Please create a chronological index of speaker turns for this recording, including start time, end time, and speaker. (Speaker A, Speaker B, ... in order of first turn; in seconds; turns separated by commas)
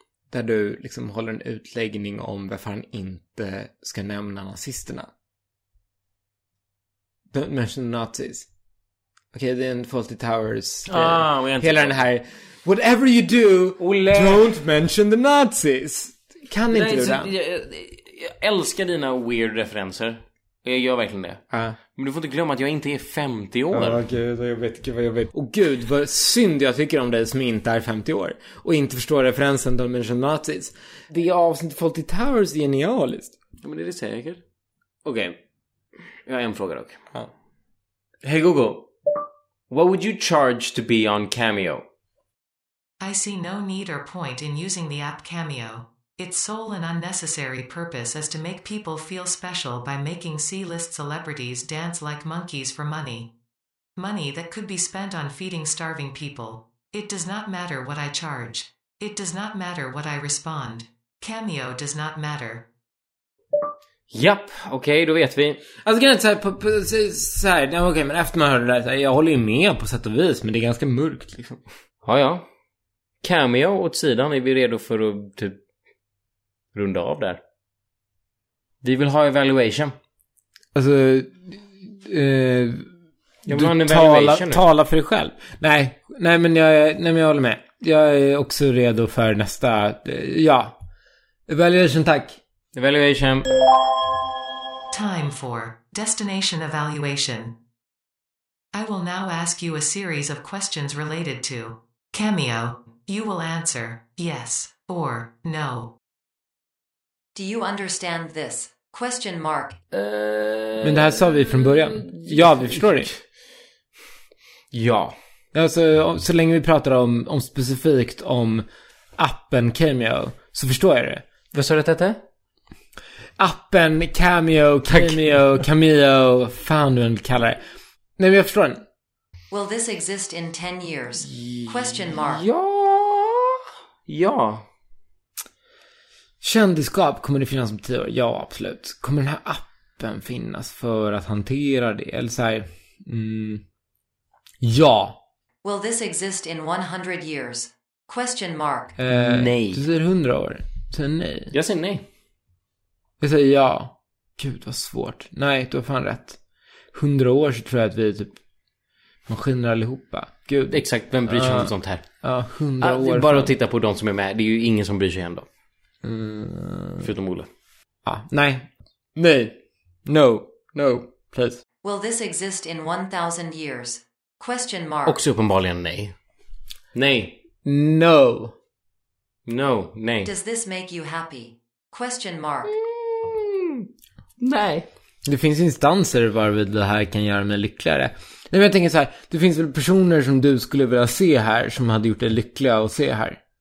Speaker A: 0.3-5.1, Speaker A: 7.3-8.5, Speaker A: 9.3-17.3, Speaker B: 10.9-12.0, Speaker B: 13.8-14.5, Speaker B: 16.7-21.4, Speaker A: 21.5-21.8, Speaker B: 21.9-24.0, Speaker A: 23.7-33.4, Speaker B: 33.6-34.4, Speaker B: 35.0-35.4, Speaker B: 36.2-37.0, Speaker B: 38.2-38.9, Speaker B: 39.7-41.8, Speaker C: 43.0-53.3, Speaker C: 54.0-62.6, Speaker B: 64.1-65.6, Speaker A: 65.8-71.6, Speaker B: 72.0-72.5, Speaker B: 73.2-75.6, Speaker B: 76.7-77.4, Speaker B: 78.8-80.0, Speaker A: 80.7-82.9, Speaker B: 83.5-84.6, Speaker A: 83.5-90.8, Speaker A: 91.5-92.4, Speaker B: 92.7-93.5, Speaker C: 94.9-97.5, Speaker C: 98.7-105.9, Speaker D: 107.3-109.8, Speaker B: 109.9-113.2, Speaker A: 110.8-113.1, Speaker B: 114.7-115.2, Speaker A: 115.5-118.7, Speaker A: 119.2-121.2, Speaker B: 121.5-122.2, Speaker A: 123.4-127.6, Speaker B: 124.9-125.2, Speaker A: 128.2-128.8, Speaker D: 129.5-132.5, Speaker B: 131.2-134.6, Speaker A: 136.4-143.6, Speaker A: 144.6-145.2, Speaker D: 145.6-148.9, Speaker A: 149.0-151.5, Speaker B: 149.1-149.8, Speaker B: 151.5-152.1, Speaker A: 153.2-156.4, Speaker A: 156.9-158.3, Speaker A: 159.3-163.5, Speaker B: 160.7-162.0, Speaker B: 162.8-165.5, Speaker A: 166.0-167.1, Speaker B: 167.0-167.5, Speaker A: 168.0-171.6, Speaker D: 171.8-175.2, Speaker B: 175.1-176.1, Speaker B: 176.9-177.4, Speaker A: 177.6-178.5, Speaker B: 179.5-180.3, Speaker D: 180.2-182.7, Speaker B: 182.7-183.9, Speaker B: 184.4-184.9, Speaker A: 185.2-193.4